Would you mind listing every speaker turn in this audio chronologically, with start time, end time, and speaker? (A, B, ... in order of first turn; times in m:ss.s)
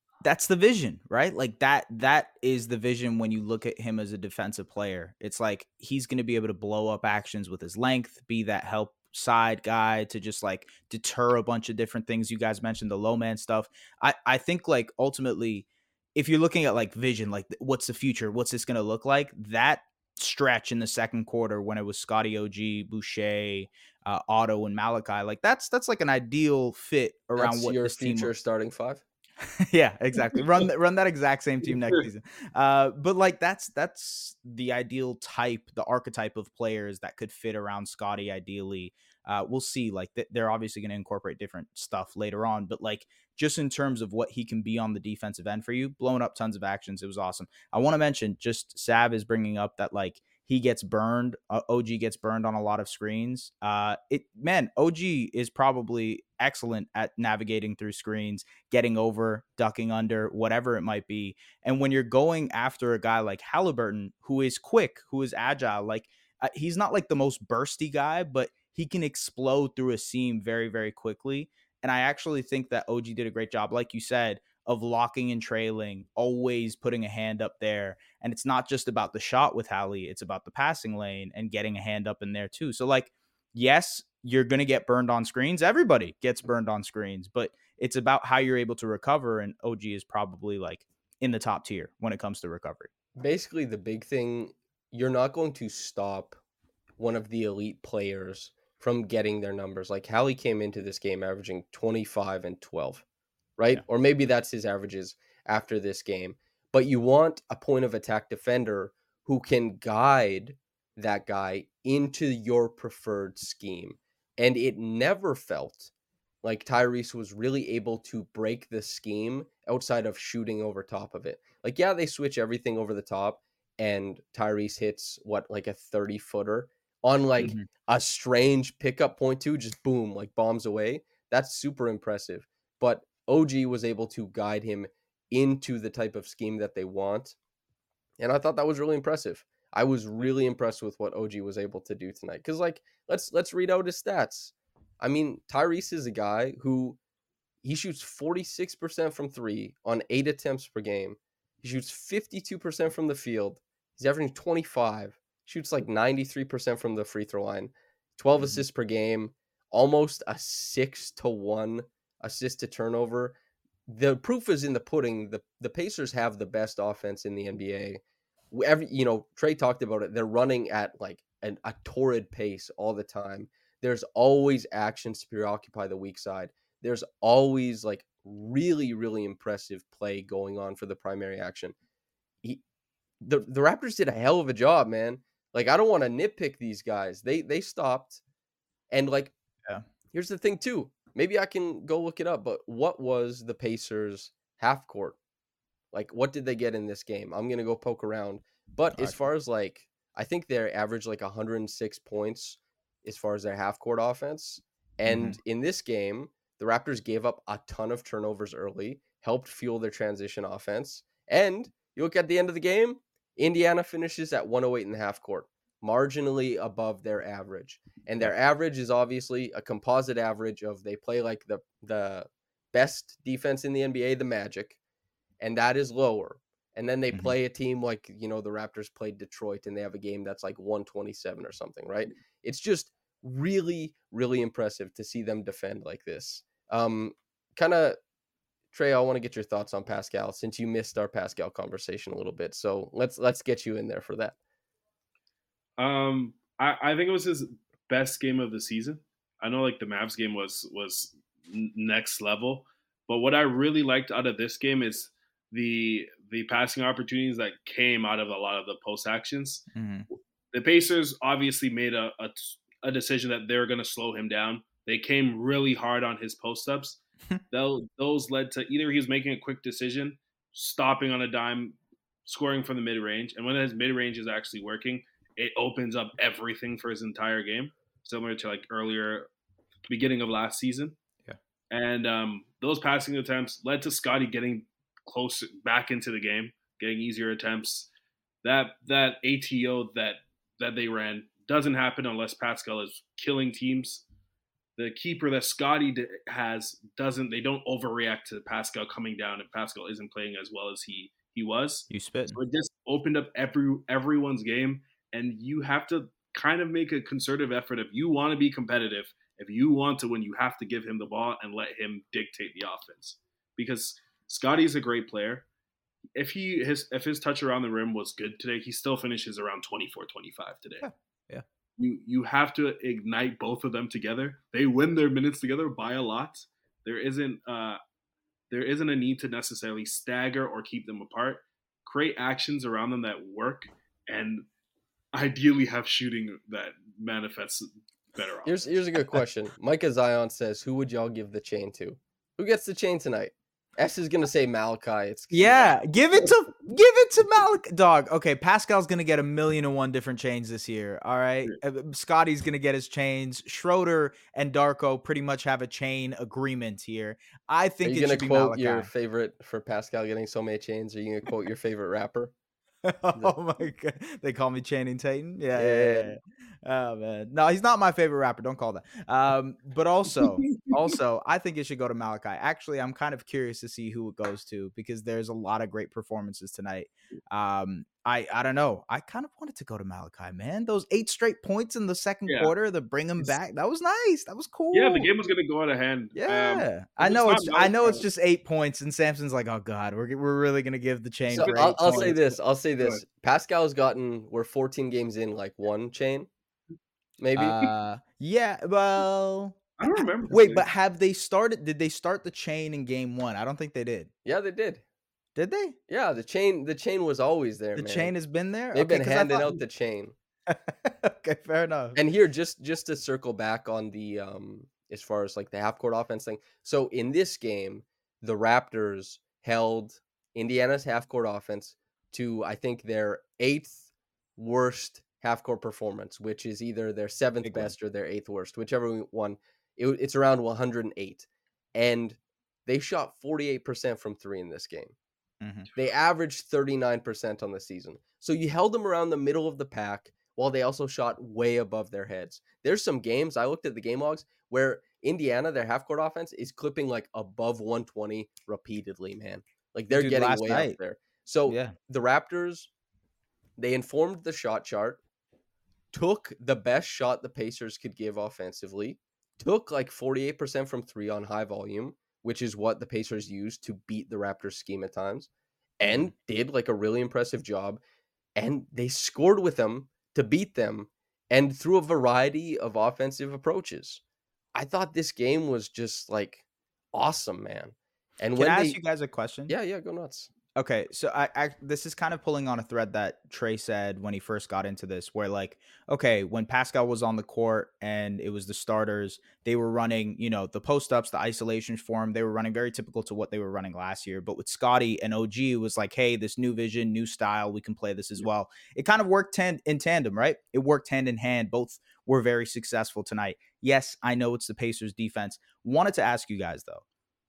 0:00.2-0:28.3 A
0:27.4-0:29.0 B
0:29.7-1:32.9 A
0:31.7-0:32.0 C
1:33.2-1:36.4 B
1:37.0-1:43.0 B
1:43.6-1:55.9 B
1:56.4-2:17.4 B
2:07.4-2:07.6 A
2:18.2-2:27.0 B
2:27.6-2:43.4 B
2:43.9-3:01.7 B
3:03.2-3:08.2 B
3:08.9-3:09.3 B
3:10.1-3:15.2 B
3:15.9-3:44.8 B
3:25.0-3:25.4 A
3:45.4-3:58.0 B
3:58.7-4:04.4 B
4:05.8-4:19.6 C
4:19.7-4:20.0 A
4:20.5-4:39.3 C
4:39.9-4:41.0 C
4:41.7-4:47.9 C
4:48.4-4:54.0 C
4:54.8-5:15.4 C
5:01.9-5:02.4 A
5:16.2-5:20.8 C
5:20.8-5:21.4 A
5:21.8-5:27.8 C
5:28.5-5:34.4 C
5:35.1-5:38.6 C
5:38.4-5:45.6 B
5:45.3-5:58.9 A
5:57.8-6:02.3 B
6:02.8-6:25.1 A
6:05.5-6:06.2 B
6:22.3-6:22.5 C
6:24.7-6:28.0 C
6:26.1-6:32.4 A
6:31.3-6:36.3 B
6:31.3-6:32.1 C
6:37.2-6:37.6 B
6:37.4-6:44.1 A
6:39.8-6:40.6 C
6:44.2-6:44.8 B
6:45.4-6:45.8 A
6:45.9-6:48.1 B
6:47.8-6:49.6 A
6:48.7-6:50.1 B
6:50.5-6:52.0 A
6:51.9-7:03.8 B
7:04.4-7:14.9 B
7:07.4-7:07.7 A
7:15.4-7:15.7 A
7:15.7-7:32.7 B
7:29.9-7:30.8 A
7:31.5-7:31.8 A
7:33.6-7:35.0 B
7:35.9-7:45.3 B
7:45.8-7:47.8 B
7:48.4-7:54.0 B
7:54.5-7:58.8 B
7:58.4-7:59.5 A
7:59.5-8:00.3 B
8:00.5-8:26.8 A